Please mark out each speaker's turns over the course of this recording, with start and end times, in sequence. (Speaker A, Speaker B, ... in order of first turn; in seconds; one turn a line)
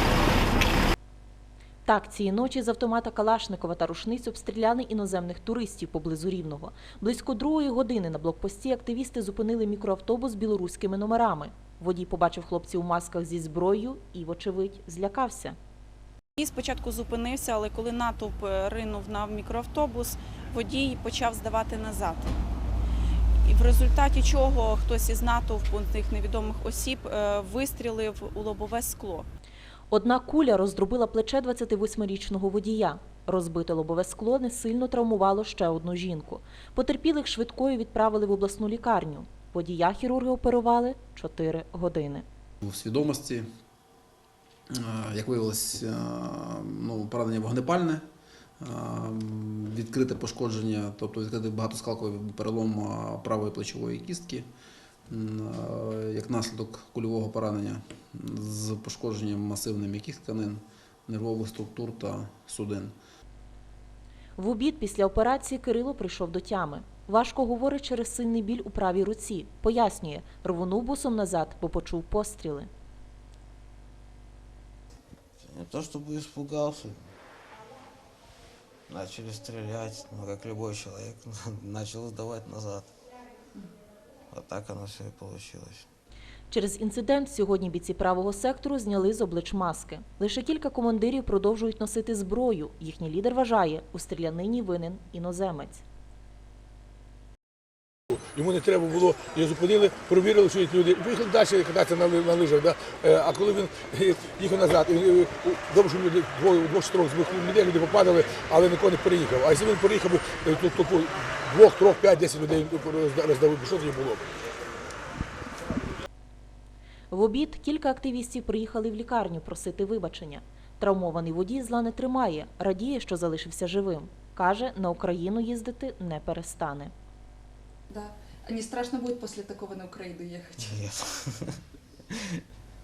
Speaker A: 1.9-15.6
Speaker B: 16.4-22.4
Speaker B: 23.4-29.3
Speaker A: 29.9-42.2
Speaker C: 42.6-43.5
Speaker C: 44.7-48.0
Speaker C: 48.6-54.5
Speaker C: 55.1-63.0
Speaker A: 64.4-72.7
Speaker D: 75.4-77.0
Speaker D: 78.9-82.9
Speaker D: 84.3-85.9
Speaker A: 86.5-95.8
Speaker E: 98.2-114.2
Speaker A: 117.1-126.9
Speaker F: 127.9-130.9
Speaker D: 130.7-131.6
Speaker D: 132.1-132.4